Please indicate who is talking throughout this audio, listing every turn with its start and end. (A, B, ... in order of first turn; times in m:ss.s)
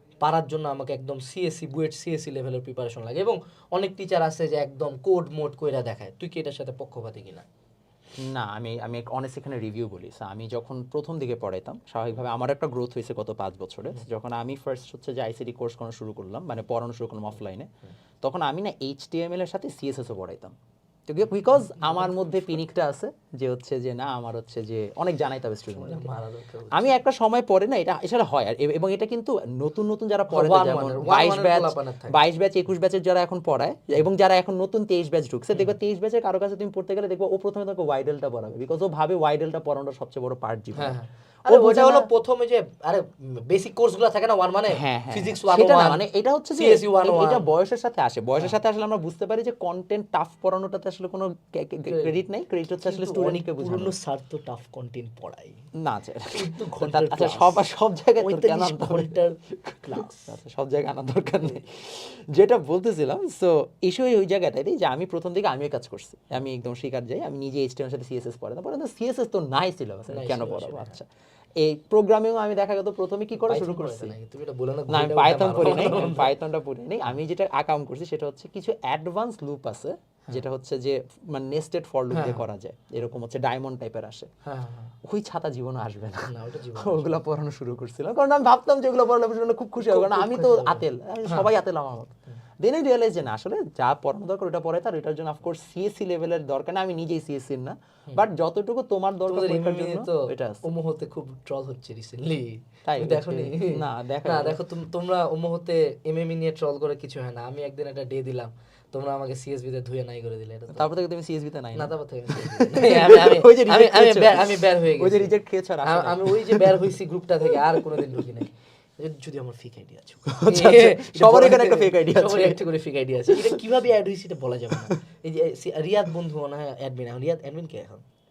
0:00.2-0:07.4 A
0:08.2-0:17.7 B
0:18.2-0:20.5 B
0:21.1-0:26.1 B
0:21.5-0:22.1 A
0:25.7-0:27.0 A
0:26.7-0:42.1 B
0:30.3-0:32.2 A
0:40.8-0:46.0 A
0:44.7-0:53.9 B
0:46.6-0:47.5 A
0:51.9-0:55.6 A
0:55.8-1:14.1 B
0:56.3-0:57.6 A
0:58.2-1:00.4 A
1:10.1-1:11.0 A
1:13.4-1:16.3 A
1:14.9-1:24.3 B
1:22.1-1:22.4 A
1:24.4-1:24.9 A
1:25.0-1:40.6 B
1:26.2-1:27.2 A
1:29.8-1:31.5 A
1:39.3-1:50.9 A
1:42.9-1:44.6 B
1:50.7-1:56.9 B
1:51.7-2:08.0 A
1:57.5-1:58.3 B
2:00.3-2:02.7 B
2:03.3-2:03.6 B